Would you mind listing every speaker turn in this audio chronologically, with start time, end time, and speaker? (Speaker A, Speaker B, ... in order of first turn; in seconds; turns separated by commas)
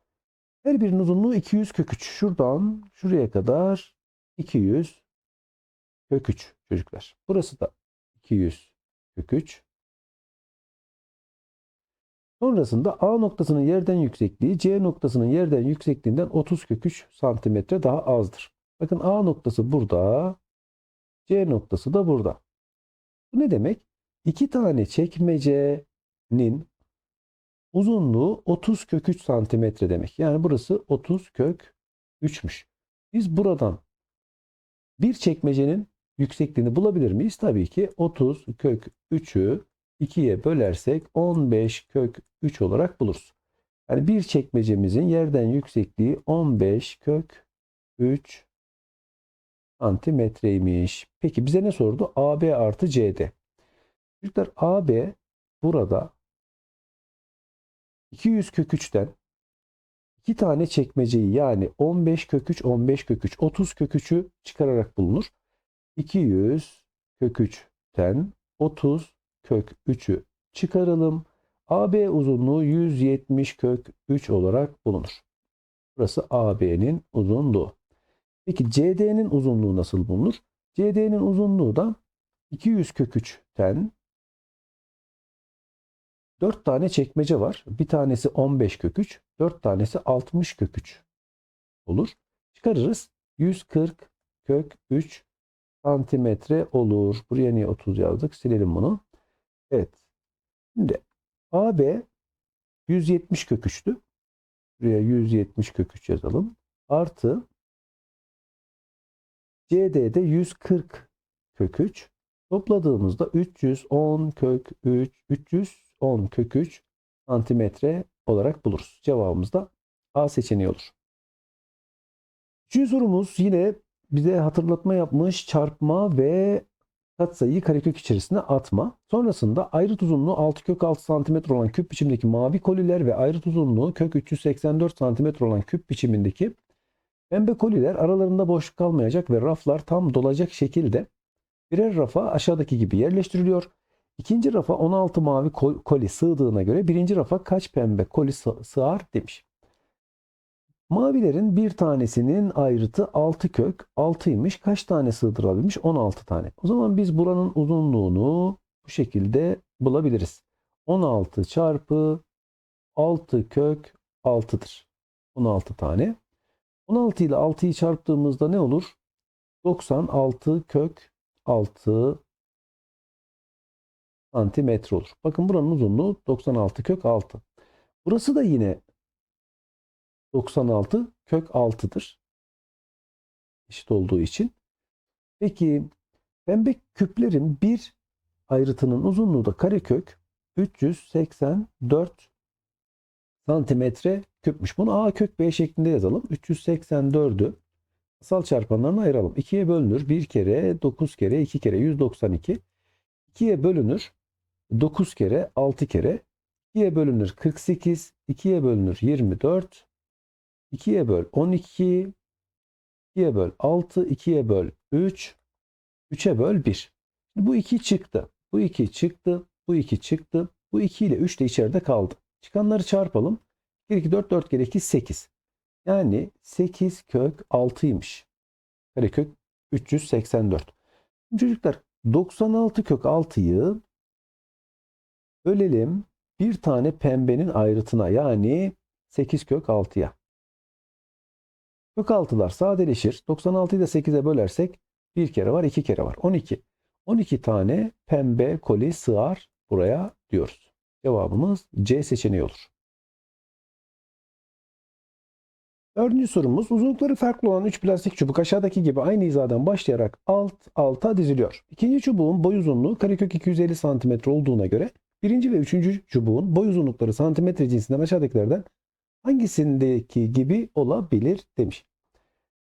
Speaker A: 0.6-5.0, Speaker A: 6.1-9.6, Speaker A: 12.4-20.4, Speaker A: 21.3-22.4, Speaker A: 23.3-26.7, Speaker A: 27.7-33.8, Speaker A: 35.0-43.4, Speaker A: 43.9-47.5, Speaker A: 48.0-48.5, Speaker A: 49.8-53.4, Speaker A: 54.2-56.1, Speaker A: 58.1-59.1, Speaker A: 60.2-65.3, Speaker A: 66.0-75.2, Speaker A: 76.0-77.8, Speaker A: 78.5-82.0, Speaker A: 82.5-83.9, Speaker A: 86.4-91.0, Speaker A: 91.9-95.3, Speaker A: 95.8-99.0, Speaker A: 99.7-100.0, Speaker A: 100.8-102.1, Speaker A: 102.9-104.0, Speaker A: 104.8-107.5, Speaker A: 109.7-121.0, Speaker A: 122.7-126.7, Speaker A: 127.2-136.6, Speaker A: 137.3-141.1, Speaker A: 141.7-149.4, Speaker A: 150.9-162.2, Speaker A: 163.0-166.2, Speaker A: 166.9-169.0, Speaker A: 169.6-172.2, Speaker A: 174.3-177.4, Speaker A: 178.0-178.8, Speaker A: 180.3-182.2, Speaker A: 183.7-184.5, Speaker A: 185.4-185.9, Speaker A: 186.5-187.9, Speaker A: 188.5-192.3, Speaker A: 193.4-197.6, Speaker A: 198.2-202.6, Speaker A: 203.3-204.1, Speaker A: 204.7-209.9, Speaker A: 210.7-212.1, Speaker A: 213.1-215.4, Speaker A: 216.1-225.3, Speaker A: 225.8-228.3, Speaker A: 228.9-230.7, Speaker A: 231.3-233.8, Speaker A: 235.4-240.2, Speaker A: 242.0-252.7, Speaker A: 255.9-268.7, Speaker A: 269.2-271.9